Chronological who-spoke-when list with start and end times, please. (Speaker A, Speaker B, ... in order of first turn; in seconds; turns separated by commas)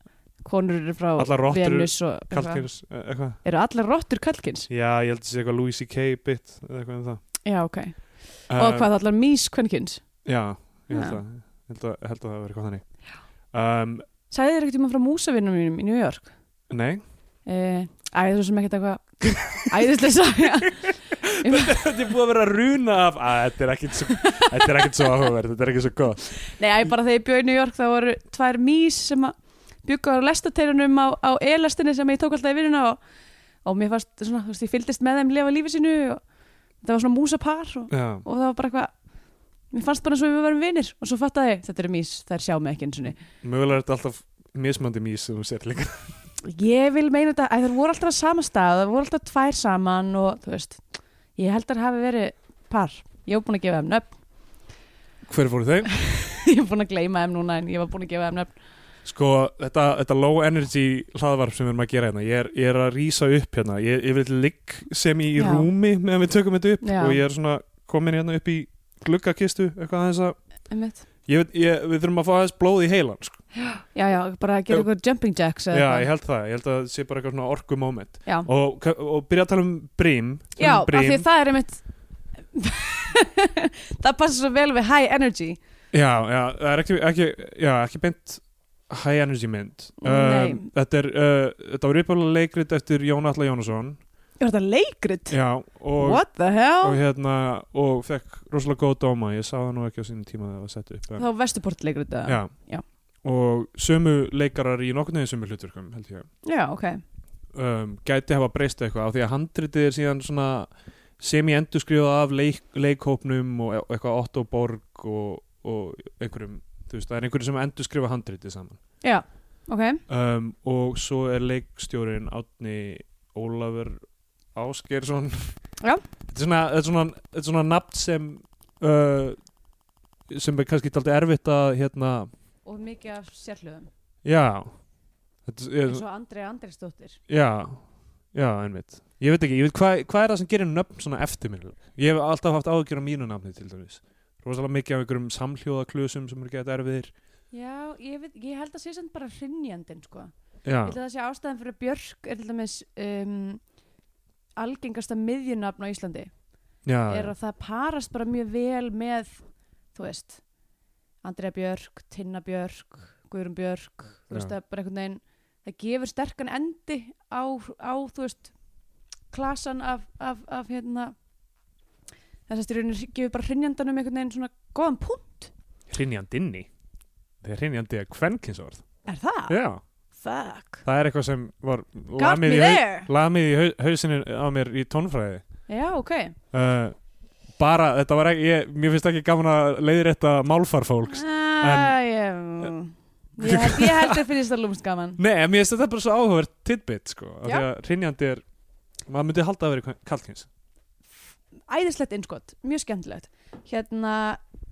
Speaker A: 0.4-2.7, Speaker B: 1.2-3.4, Speaker A: 3.4-4.7, Speaker B: 4.7-7.2, Speaker A: 7.4-8.0, Speaker B: 8.5-8.9, Speaker A: 8.5-10.0, Speaker B: 10.2-12.8, Speaker A: 10.9-11.2, Speaker B: 13.5-14.0, Speaker A: 14.3-16.3, Speaker B: 16.7-17.0, Speaker A: 17.4-21.8, Speaker B: 21.1-26.4, Speaker A: 24.1-25.0, Speaker A: 26.4-33.0, Speaker A: 33.6-36.2, Speaker A: 36.8-38.9, Speaker B: 37.9-38.2, Speaker A: 39.7-43.2, Speaker B: 43.3-46.1, Speaker A: 46.4-50.8, Speaker A: 51.4-54.1, Speaker B: 55.3-55.9, Speaker A: 55.9-58.5, Speaker B: 59.0-70.4, Speaker A: 65.3-65.7, Speaker A: 66.8-67.2, Speaker A: 70.7-71.0, Speaker B: 71.3-73.4, Speaker A: 73.5-76.1, Speaker B: 75.7-81.2, Speaker A: 80.6-81.8, Speaker A: 82.5-85.6, Speaker B: 85.9-94.0, Speaker A: 90.0-90.7, Speaker A: 94.4-95.4, Speaker B: 95.3-96.2, Speaker A: 96.0-97.0, Speaker B: 96.8-101.2, Speaker A: 101.1-102.8, Speaker B: 102.2-102.5, Speaker B: 103.2-106.3, Speaker A: 106.4-107.0, Speaker B: 107.5-118.8, Speaker A: 119.0-120.0, Speaker B: 120.1-124.0, Speaker B: 124.5-125.6, Speaker B: 126.3-129.4, Speaker B: 130.3-132.3, Speaker A: 132.6-133.9, Speaker B: 134.2-134.7, Speaker B: 135.4-136.0, Speaker A: 135.8-137.2, Speaker B: 137.3-137.8, Speaker B: 138.3-147.1, Speaker A: 147.5-150.3, Speaker B: 150.6-151.0, Speaker A: 150.8-153.6, Speaker A: 154.6-156.3, Speaker B: 156.8-157.3, Speaker A: 157.1-159.4, Speaker A: 159.9-160.4, Speaker A: 161.2-168.5, Speaker A: 169.3-171.1, Speaker A: 172.5-175.5, Speaker B: 175.9-176.7, Speaker B: 177.4-178.8, Speaker A: 179.1-179.6, Speaker B: 179.5-179.8, Speaker A: 180.2-180.8, Speaker B: 180.8-185.4, Speaker A: 182.2-183.1, Speaker A: 185.7-186.3, Speaker B: 186.5-186.9, Speaker B: 187.6-191.9, Speaker A: 191.1-195.2, Speaker B: 193.4-194.2, Speaker B: 195.2-198.4, Speaker B: 199.1-200.5, Speaker A: 201.7-204.4